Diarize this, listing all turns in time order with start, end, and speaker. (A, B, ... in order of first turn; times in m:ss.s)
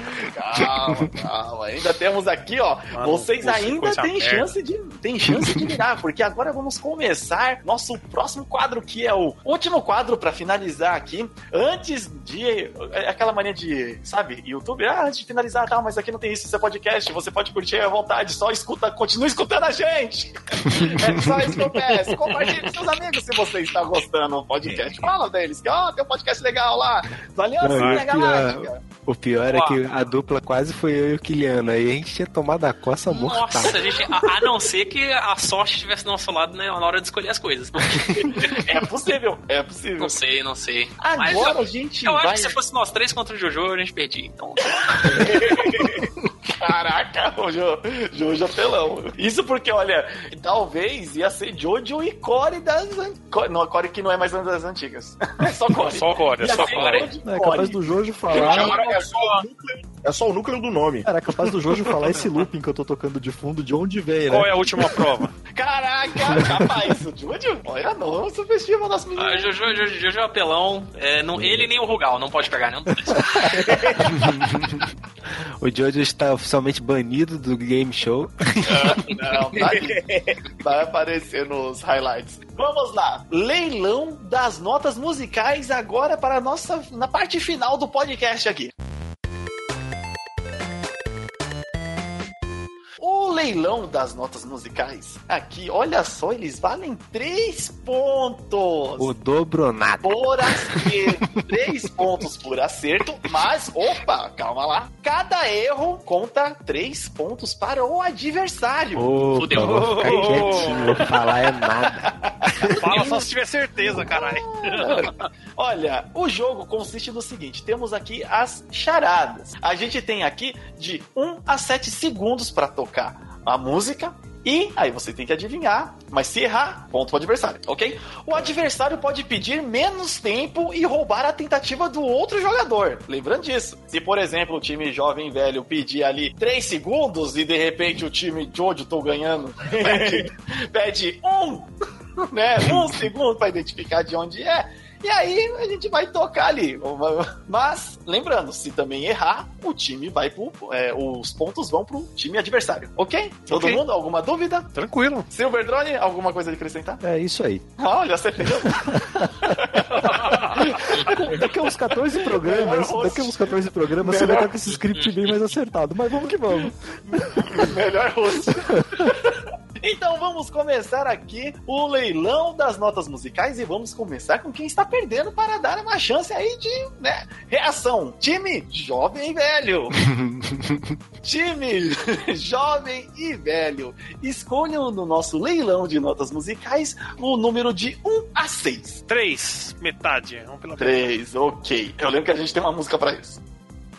0:00.2-0:28.8 A
0:02.9-0:04.5 B
0:05.3-0:05.8 C
0:20.7-0:21.5 C
0:21.7-0:22.7 B
0:27.6-0:33.8 C
0:27.7-0:28.0 B
0:29.4-0:29.8 D
0:33.1-0:38.6 D
0:38.1-0:40.2 A
0:40.0-0:45.2 D
0:41.0-0:42.6 A
0:44.9-0:58.9 A
0:45.2-0:45.9 E
0:55.8-0:57.1 B
0:56.4-0:57.1 D
0:57.2-0:58.7 F
0:58.3-1:01.1 E
0:58.5-0:59.4 B
1:01.0-1:05.0 F
1:04.3-1:05.3 B
1:05.5-1:09.5 A
1:09.2-1:13.6 D
1:11.4-1:11.6 C
1:13.5-1:14.3 E
1:14.0-1:19.2 C
1:18.6-1:28.7 A
1:19.5-1:20.4 E
1:33.0-1:39.1 A
1:39.0-1:41.4 C
1:40.0-1:49.1 A
1:48.9-1:53.0 C
1:49.4-1:50.7 D
1:49.6-1:51.2 B
1:51.8-2:21.7 A
1:52.8-1:55.2 B
2:19.6-2:20.3 E
2:22.3-2:34.7 A
2:33.5-2:33.8 B
2:34.7-2:35.3 B
2:35.3-2:37.0 A
2:37.0-2:37.6 F
2:37.8-2:41.5 A
2:38.6-2:39.6 F
2:40.0-2:40.6 B
2:40.7-2:47.5 F
2:40.9-2:41.2 D
2:42.1-2:43.4 A
2:44.0-2:44.5 A
2:44.7-2:45.4 D
2:47.1-3:00.0 A
3:00.0-3:00.9 C
3:01.2-3:09.0 A
3:09.1-3:11.1 B
3:10.8-3:13.4 A